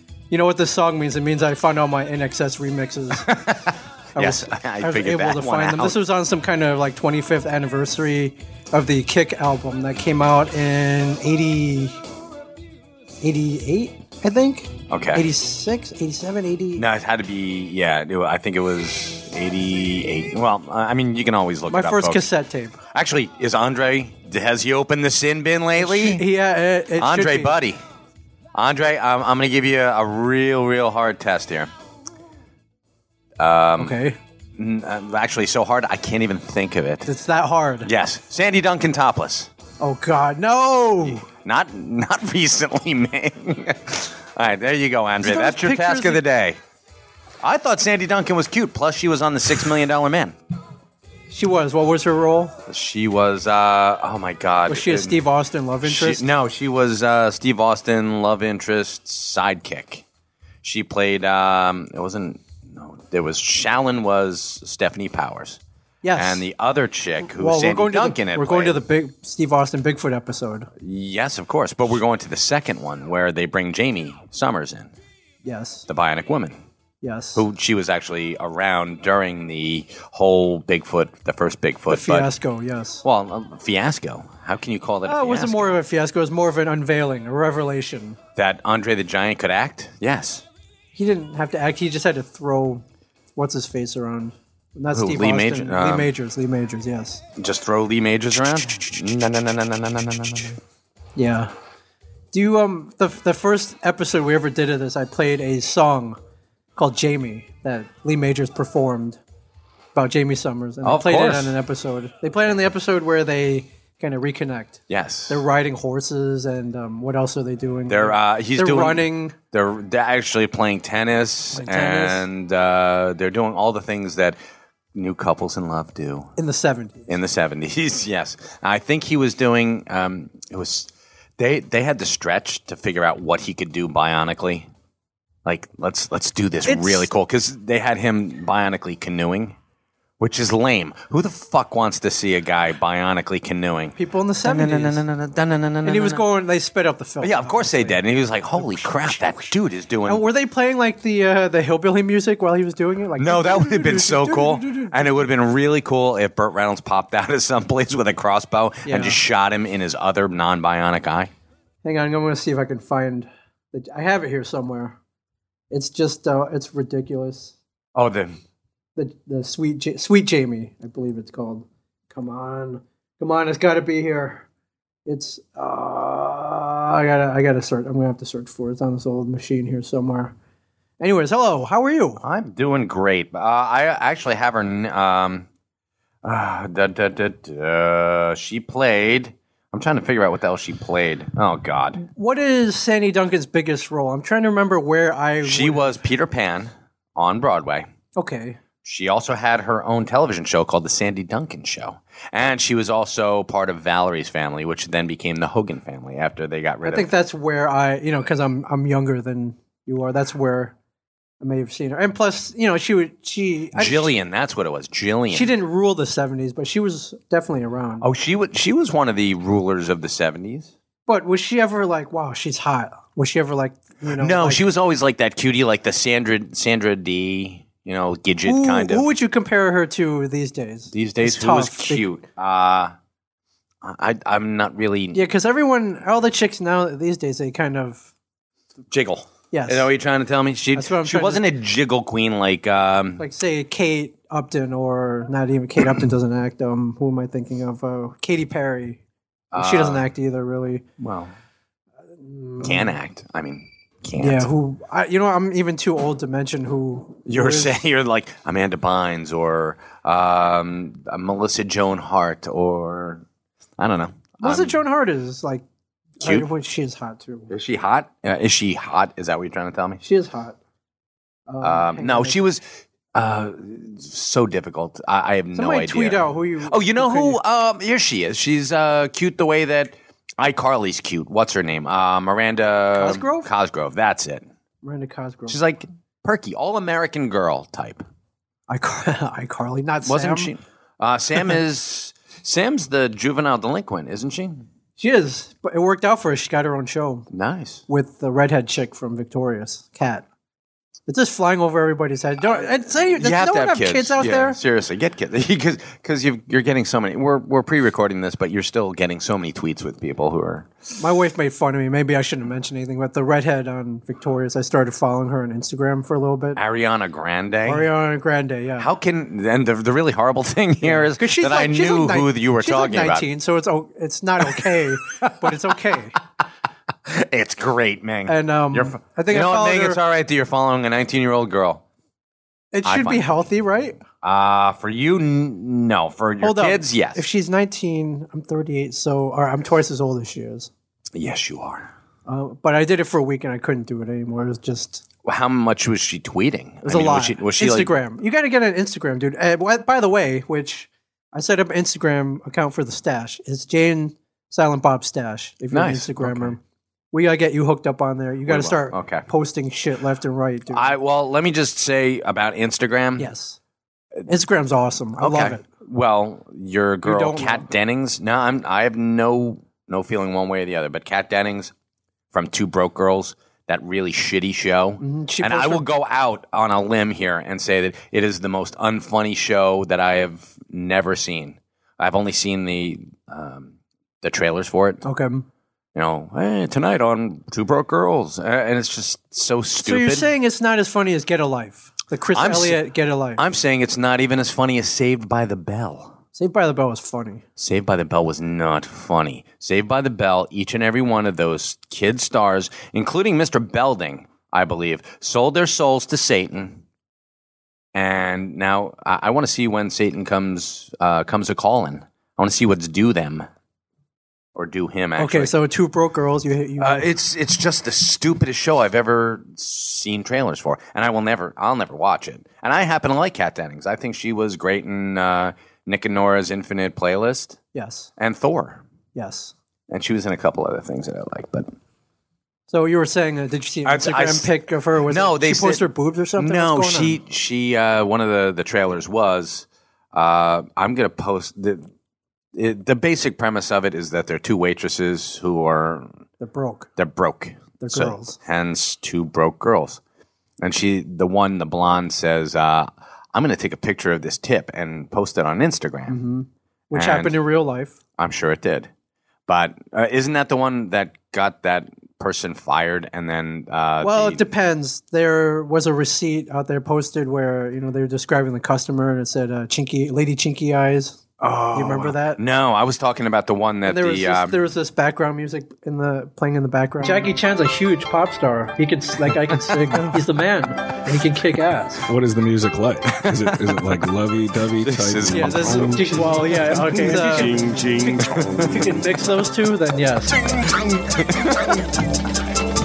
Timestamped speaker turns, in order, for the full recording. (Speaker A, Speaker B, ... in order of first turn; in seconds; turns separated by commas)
Speaker A: 0.3-3.3, Speaker B: 3.1-6.0, Speaker A: 4.1-12.0, Speaker A: 13.2-16.8, Speaker B: 14.9-15.3, Speaker B: 16.7-22.2, Speaker A: 21.7-22.8, Speaker B: 22.9-26.2, Speaker A: 25.8-27.6, Speaker B: 27.0-27.8, Speaker B: 28.5-31.7, Speaker B: 33.4-34.0, Speaker A: 33.8-34.2, Speaker B: 34.5-37.1, Speaker A: 37.0-37.9, Speaker B: 37.8-39.5, Speaker A: 39.8-41.2, Speaker B: 41.0-46.6, Speaker A: 45.2-46.2, Speaker B: 47.4-50.4, Speaker A: 51.3-52.5, Speaker B: 52.7-55.2, Speaker A: 54.7-56.3, Speaker B: 55.8-60.0, Speaker B: 60.6-65.6, Speaker A: 66.0-66.5, Speaker B: 66.2-68.8, Speaker A: 67.2-70.7, Speaker B: 70.8-74.9, Speaker A: 75.4-75.9, Speaker B: 75.9-76.6, Speaker A: 77.0-77.4, Speaker B: 77.3-82.3, Speaker A: 81.9-83.0, Speaker B: 83.0-85.8, Speaker A: 85.0-88.2, Speaker B: 88.3-90.4, Speaker A: 90.9-92.8, Speaker A: 93.3-97.2, Speaker B: 94.9-96.1, Speaker B: 97.4-100.6, Speaker A: 101.2-101.5, Speaker A: 102.3-106.2, Speaker A: 106.8-109.2, Speaker A: 109.9-119.3, Speaker B: 110.8-111.5, Speaker B: 114.9-115.4, Speaker B: 117.9-124.4, Speaker A: 121.5-122.2, Speaker B: 124.9-126.3, Speaker A: 126.4-127.1, Speaker B: 127.1-134.7, Speaker B: 135.4-139.6, Speaker A: 136.7-137.1, Speaker B: 140.2-146.2, Speaker A: 143.9-145.0, Speaker A: 145.8-148.0, Speaker B: 147.2-150.2, Speaker A: 148.6-149.5, Speaker A: 150.1-155.2, Speaker B: 153.2-161.3, Speaker A: 158.8-159.2, Speaker A: 161.8-164.9, Speaker A: 165.7-167.5, Speaker B: 167.9-168.3, Speaker A: 168.9-174.4, Speaker A: 175.1-180.3, Speaker A: 181.0-182.2, Speaker B: 182.2-185.5, Speaker B: 186.2-192.0, Speaker A: 192.0-196.0, Speaker B: 195.4-197.9, Speaker A: 198.2-198.6, Speaker B: 198.8-207.1, Speaker A: 206.8-210.7, Speaker A: 211.4-214.1, Speaker B: 213.7-215.5, Speaker A: 215.3-218.0, Speaker B: 218.0-220.7, Speaker A: 221.1-224.6, Speaker B: 224.1-229.1, Speaker A: 228.4-232.1, Speaker B: 230.9-232.9, Speaker B: 233.8-235.2, Speaker A: 235.1-238.1, Speaker B: 238.9-243.2, Speaker A: 239.5-239.9, Speaker A: 240.7-241.4, Speaker A: 243.2-249.0, Speaker B: 249.5-250.0, Speaker A: 249.6-250.8, Speaker B: 251.0-251.3, Speaker A: 252.2-253.0, Speaker B: 252.6-254.5, Speaker A: 254.2-257.8, Speaker B: 257.2-263.2, Speaker B: 263.8-264.8, Speaker A: 264.4-265.6, Speaker A: 266.2-267.5, Speaker B: 266.2-266.5, Speaker B: 267.5-270.0, Speaker A: 270.0-270.6, Speaker A: 271.5-272.4, Speaker B: 271.6-284.5, Speaker A: 275.5-277.4, Speaker A: 282.9-283.5, Speaker A: 284.8-285.6, Speaker B: 285.5-288.0, Speaker A: 288.7-290.5, Speaker B: 290.1-294.7, Speaker A: 295.0-297.3, Speaker B: 297.3-297.8, Speaker A: 297.9-300.2, Speaker A: 301.1-304.6, Speaker B: 303.1-310.7, Speaker A: 310.9-316.6, Speaker B: 316.6-317.9, Speaker A: 317.6-318.9, Speaker B: 318.8-323.3, Speaker A: 320.8-326.2, Speaker B: 324.5-325.6, Speaker B: 327.1-331.8, Speaker A: 328.2-330.0, Speaker A: 332.7-334.0, Speaker B: 332.8-333.4, Speaker B: 334.2-337.2, Speaker A: 336.4-340.7, Speaker B: 341.1-341.9, Speaker A: 342.2-345.0, Speaker B: 345.2-347.9, Speaker A: 346.8-356.6, Speaker B: 355.7-356.6, Speaker A: 357.1-360.9, Speaker B: 358.4-359.3, Speaker B: 360.7-363.3, Speaker A: 363.2-363.6, Speaker A: 364.3-365.6, Speaker B: 365.2-371.7, Speaker A: 367.0-367.6, Speaker B: 372.3-385.0, Speaker A: 375.0-375.8, Speaker A: 385.0-385.4, Speaker B: 385.9-390.3, Speaker A: 389.8-393.4, Speaker B: 392.3-392.8, Speaker B: 393.4-396.2, Speaker A: 396.3-397.4, Speaker B: 397.6-406.8, Speaker B: 407.9-413.5, Speaker B: 414.5-415.5, Speaker A: 415.2-417.1, Speaker B: 416.8-427.6, Speaker A: 427.7-428.1, Speaker B: 428.2-428.8, Speaker A: 429.1-429.5, Speaker B: 429.9-431.7, Speaker A: 432.7-437.2, Speaker B: 433.8-434.5, Speaker B: 435.1-435.9, Speaker B: 436.4-441.9, Speaker B: 442.5-446.1, Speaker A: 446.4-446.9, Speaker B: 447.0-450.0, Speaker A: 447.8-448.4, Speaker B: 450.6-456.2, Speaker A: 456.1-458.0, Speaker B: 456.9-457.4, Speaker B: 458.2-458.9, Speaker B: 459.5-464.4, Speaker A: 464.0-472.4, Speaker B: 471.4-474.6, Speaker A: 473.8-482.0, Speaker B: 479.3-480.2, Speaker C: 482.0-488.2, Speaker B: 483.2-484.0, Speaker B: 484.8-488.9, Speaker A: 485.3-487.8, Speaker A: 488.5-490.4, Speaker B: 490.5-491.9